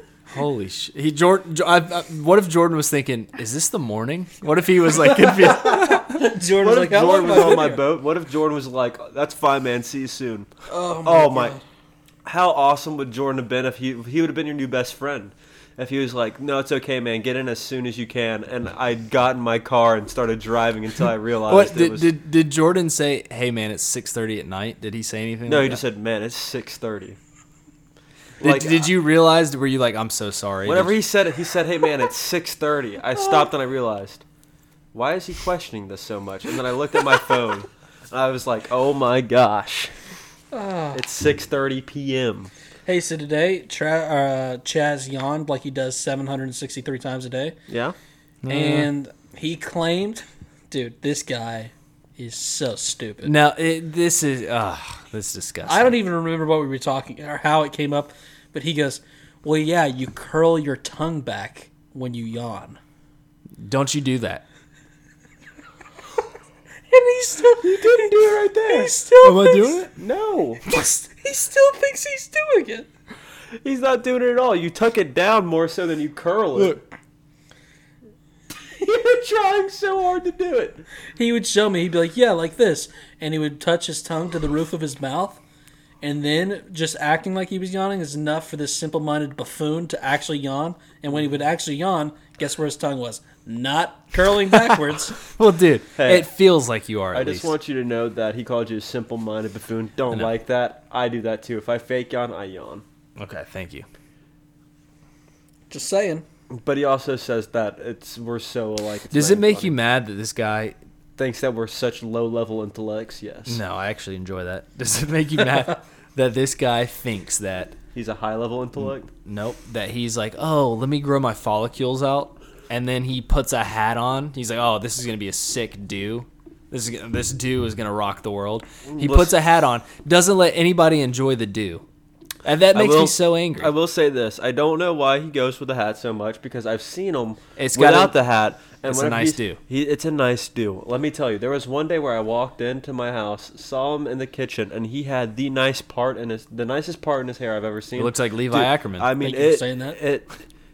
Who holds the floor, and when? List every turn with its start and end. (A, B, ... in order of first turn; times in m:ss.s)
0:00.3-0:06.2 A
0:05.3-0:07.8 B
0:06.6-0:10.5 C
0:10.7-0:11.6 B
0:11.0-0:11.6 C
0:12.2-0:22.1 C
0:21.5-0:25.8 A
0:25.5-0:27.2 C
0:28.4-0:28.8 C
0:28.4-0:31.0 A
0:30.6-0:34.2 C
0:34.9-0:40.0 C
0:40.5-0:41.0 B
0:40.9-0:42.5 C
0:42.8-0:47.5 B
0:47.7-0:48.0 C
0:48.4-0:48.9 A
0:48.5-0:53.3 B
0:53.2-0:56.0 A
0:55.7-1:02.8 B
1:03.6-1:04.4 A
1:06.9-1:08.1 B
1:07.6-1:09.0 C
1:08.6-1:09.8 B
1:09.2-1:09.9 A
1:10.0-1:10.6 C
1:10.6-1:12.9 B
1:13.6-1:16.8 C
1:18.8-1:20.8 C
1:21.2-1:25.4 B
1:26.0-1:35.2 B
1:35.3-1:37.5 A
1:36.0-1:36.3 C
1:37.1-1:42.8 C
1:43.2-1:43.8 A
1:45.7-1:46.2 B
1:46.6-1:49.7 C
1:49.1-1:50.8 A
1:51.2-1:53.6 C
1:53.5-1:57.8 A
1:57.9-1:59.1 C
1:59.2-2:11.8 A
2:08.9-2:09.3 C
2:12.4-2:13.7 A
2:12.7-2:30.3 C
2:17.6-2:18.2 A
2:18.8-2:19.6 A
2:28.0-2:29.1 A
2:29.2-2:30.0 B